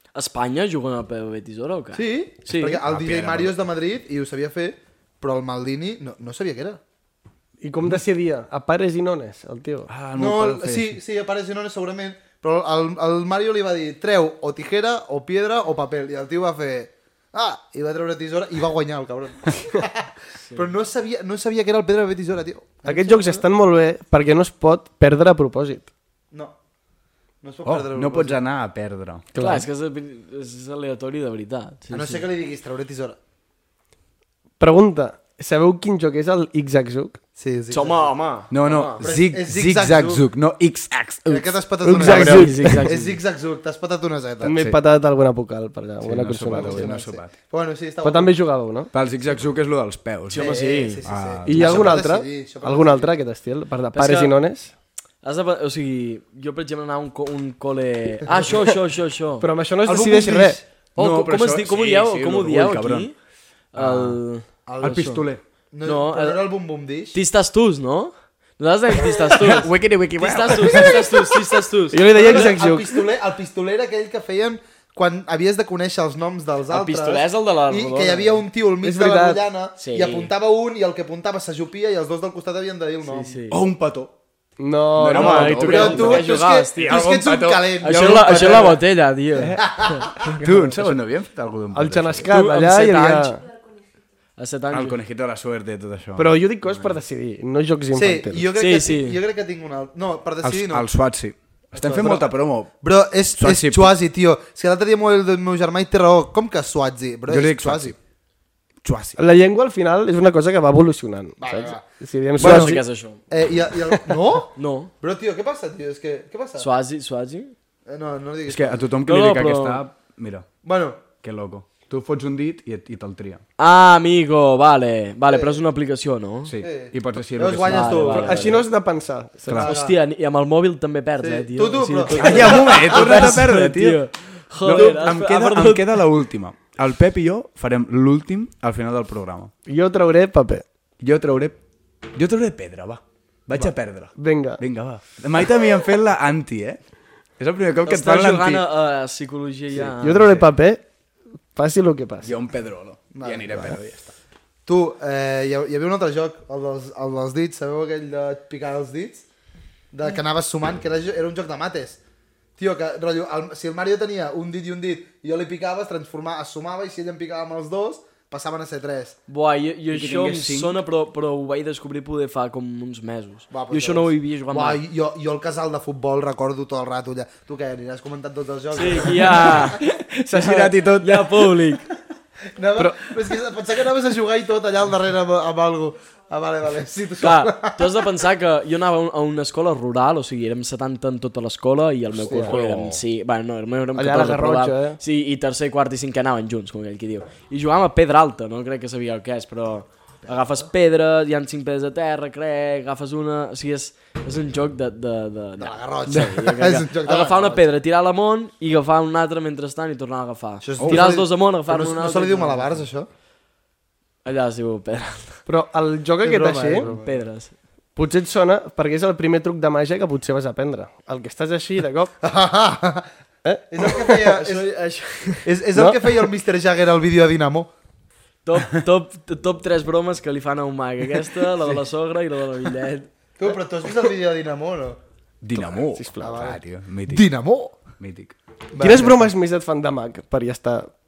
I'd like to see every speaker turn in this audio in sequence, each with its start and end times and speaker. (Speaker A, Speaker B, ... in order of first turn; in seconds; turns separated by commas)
Speaker A: 0.1-2.8, Speaker B: 1.9-6.8, Speaker C: 2.8-3.6, Speaker D: 7.6-9.9, Speaker C: 9.9-11.0, Speaker B: 10.2-23.4, Speaker D: 22.9-25.9, Speaker B: 27.4-28.4, Speaker C: 27.6-29.3, Speaker D: 29.3-29.7, Speaker A: 29.4-32.2, Speaker B: 31.9-33.2, Speaker D: 34.6-37.2, Speaker B: 37.4-38.1, Speaker A: 37.7-39.1, Speaker C: 38.5-42.4, Speaker B: 39.0-40.2, Speaker B: 41.2-44.5, Speaker D: 41.8-42.9, Speaker A: 42.0-43.2, Speaker D: 44.4-46.9, Speaker C: 44.5-44.8, Speaker C: 46.0-47.3, Speaker B: 46.5-48.3, Speaker D: 48.0-48.9, Speaker C: 48.9-52.0, Speaker A: 50.3-51.0, Speaker B: 50.4-53.1, Speaker D: 51.5-54.7, Speaker A: 53.9-54.3, Speaker A: 55.2-59.5, Speaker B: 58.2-58.5, Speaker D: 59.4-60.6, Speaker B: 59.9-60.6, Speaker C: 61.0-63.1, Speaker A: 61.0-63.1, Speaker A: 63.7-65.3, Speaker C: 63.8-64.1, Speaker B: 64.7-67.2, Speaker C: 64.8-65.4, Speaker A: 65.8-66.5, Speaker A: 67.1-72.5, Speaker C: 69.3-71.5, Speaker D: 71.9-73.0, Speaker B: 72.1-83.4, Speaker A: 76.7-78.4, Speaker D: 78.8-79.4, Speaker A: 79.8-80.3, Speaker A: 83.0-83.6, Speaker C: 83.5-84.1, Speaker D: 84.6-86.0, Speaker C: 84.9-87.9, Speaker A: 85.1-87.1, Speaker B: 85.2-88.8, Speaker A: 87.8-89.6, Speaker C: 89.3-92.3, Speaker B: 89.6-90.3, Speaker D: 90.2-91.0, Speaker D: 91.7-93.4, Speaker A: 92.3-93.4, Speaker A: 94.4-95.0, Speaker C: 94.7-96.4, Speaker D: 96.2-98.5, Speaker A: 96.7-97.0, Speaker B: 98.0-100.9, Speaker A: 98.6-99.2, Speaker C: 100.4-102.7, Speaker B: 101.7-108.0, Speaker C: 103.4-104.0, Speaker C: 107.3-108.0, Speaker C: 108.8-109.2, Speaker D: 109.2-112.8, Speaker B: 111.4-111.8, Speaker B: 112.4-112.8, Speaker A: 112.4-113.2, Speaker B: 113.3-116.7, Speaker A: 114.6-114.9, Speaker A: 116.6-117.5, Speaker B: 117.9-118.9, Speaker C: 118.5-120.5, Speaker A: 119.1-119.8, Speaker B: 120.6-121.0, Speaker C: 121.2-123.4, Speaker A: 123.6-126.5, Speaker B: 125.3-125.6, Speaker C: 126.5-128.5, Speaker B: 126.6-128.6, Speaker A: 127.6-128.6, Speaker D: 128.1-129.6, Speaker C: 129.5-129.7, Speaker B: 129.5-130.0, Speaker A: 129.6-136.0, Speaker B: 131.2-133.3, Speaker C: 132.1-134.0, Speaker C: 134.6-139.5, Speaker B: 134.8-135.2, Speaker D: 139.7-140.6, Speaker C: 141.0-141.6, Speaker C: 142.1-146.8, Speaker D: 144.2-144.6, Speaker C: 147.4-148.6, Speaker A: 147.8-150.2, Speaker D: 149.8-150.8, Speaker D: 151.5-152.4, Speaker C: 152.2-154.1, Speaker B: 153.1-153.7, Speaker B: 154.7-159.2, Speaker B: 159.9-162.0, Speaker B: 162.6-169.2, Speaker A: 169.3-174.8, Speaker C: 169.9-170.8, Speaker B: 173.5-179.8, Speaker A: 178.7-181.9, Speaker C: 179.6-181.7, Speaker B: 182.6-188.0, Speaker D: 182.8-183.0, Speaker A: 187.2-212.8, Speaker D: 192.2-192.5, Speaker C: 192.2-193.0, Speaker D: 193.9-195.0, Speaker B: 200.2-200.7, Speaker B: 205.6-207.6, Speaker B: 210.6-213.1, Speaker A: 214.2-215.4, Speaker D: 215.5-216.9, Speaker B: 216.2-217.1, Speaker A: 216.8-217.5, Speaker D: 218.0-222.1, Speaker B: 222.2-223.1, Speaker D: 223.4-224.0, Speaker B: 223.7-224.7, Speaker A: 224.1-225.5, Speaker B: 225.4-227.7, Speaker D: 225.8-226.2, Speaker A: 228.4-233.6, Speaker B: 233.4-235.0, Speaker C: 235.4-237.3, Speaker D: 235.9-236.4, Speaker B: 236.2-237.8, Speaker C: 238.0-238.3, Speaker B: 238.7-239.3, Speaker D: 238.8-240.9